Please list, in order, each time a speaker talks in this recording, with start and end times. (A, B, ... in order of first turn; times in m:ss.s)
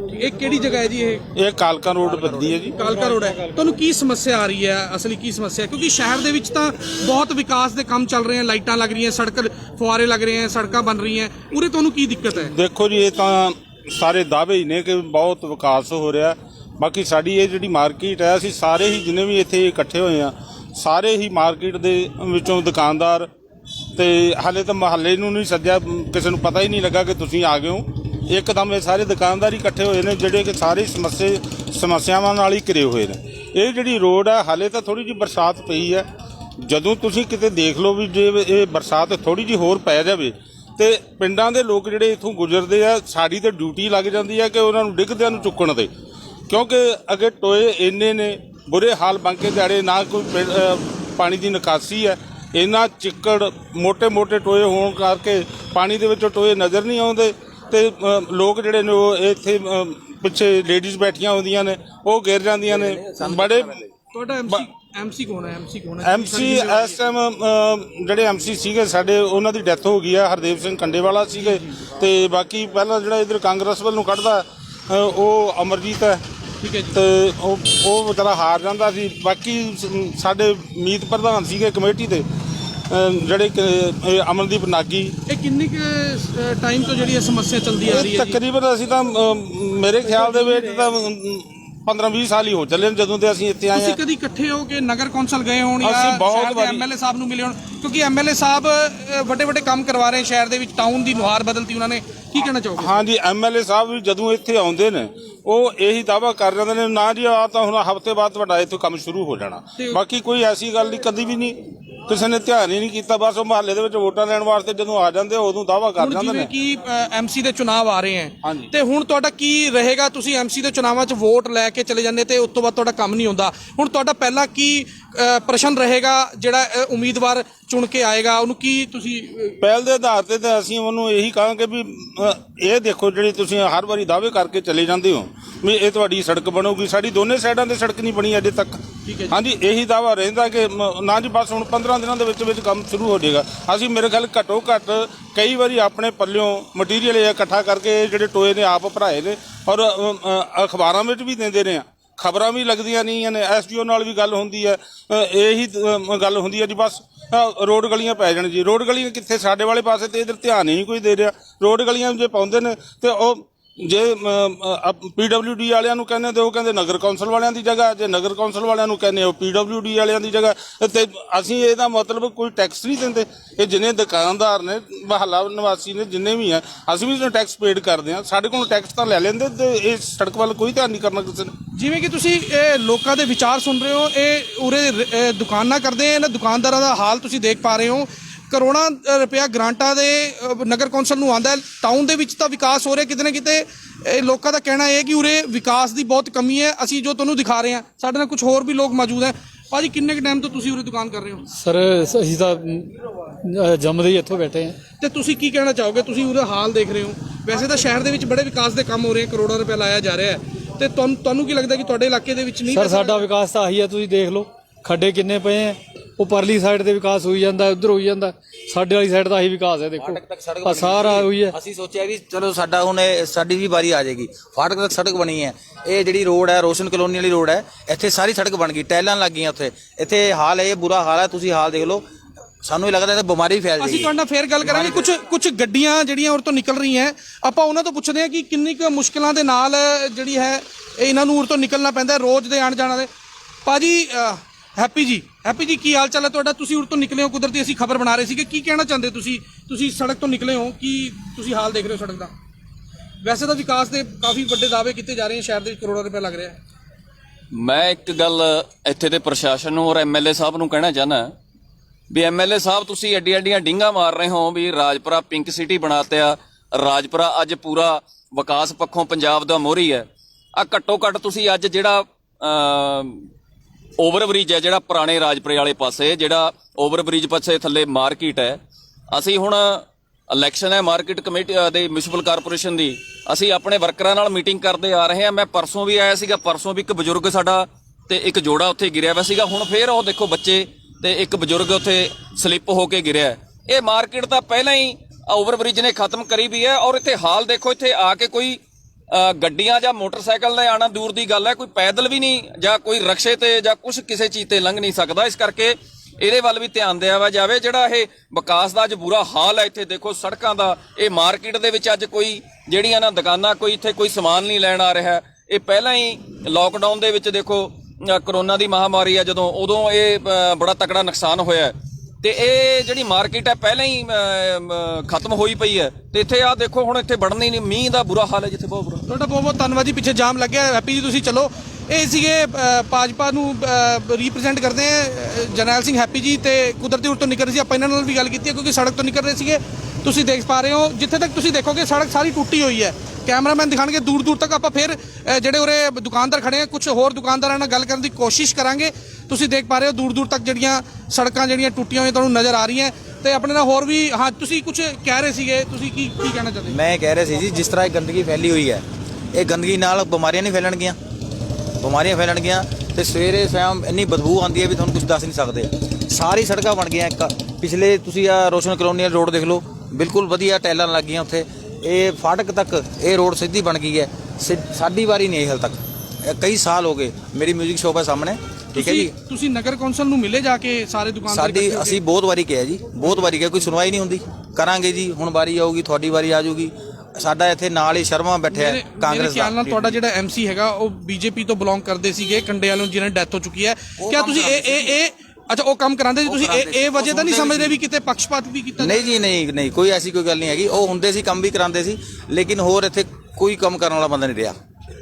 0:00.1-0:01.2 A
0:01.4-0:02.8 B
0:02.7-0:12.5 A
0:12.4-0:23.3 B
0:24.0-0:36.1 B
0:36.6-0:45.9 B
0:46.5-1:03.9 B
1:02.7-1:03.8 C
1:04.1-1:07.0 A
1:06.0-1:16.2 B
1:16.6-1:17.0 A
1:16.9-1:22.2 B
1:22.9-1:25.1 B
1:25.3-1:28.4 A
1:27.9-1:34.0 B
1:30.1-1:30.8 A
1:33.7-1:43.0 A
1:35.8-1:36.9 B
1:42.8-1:56.5 B
1:56.0-2:09.6 A
1:58.4-1:58.7 B
2:09.6-3:01.5 B
2:19.0-2:19.4 A
3:01.8-3:21.5 A
3:21.5-3:24.8 D
3:25.0-3:33.3 A
3:32.7-3:41.6 D
3:40.0-3:52.0 C
3:52.6-3:54.1 C
3:53.8-4:03.1 A
3:54.7-3:55.0 C
4:03.6-4:12.3 A
4:13.2-4:16.6 A
4:17.5-4:21.3 E
4:22.1-4:33.3 E
4:34.0-4:38.6 E
4:39.1-4:58.6 E
4:59.1-5:29.0 E
5:29.1-5:56.8 A
5:56.7-6:01.0 C
6:01.8-6:19.1 C
6:18.7-6:22.0 A
6:21.3-6:30.0 C
6:28.5-6:39.2 A
6:34.0-6:35.0 C
6:36.2-6:37.8 C
6:38.8-6:44.6 C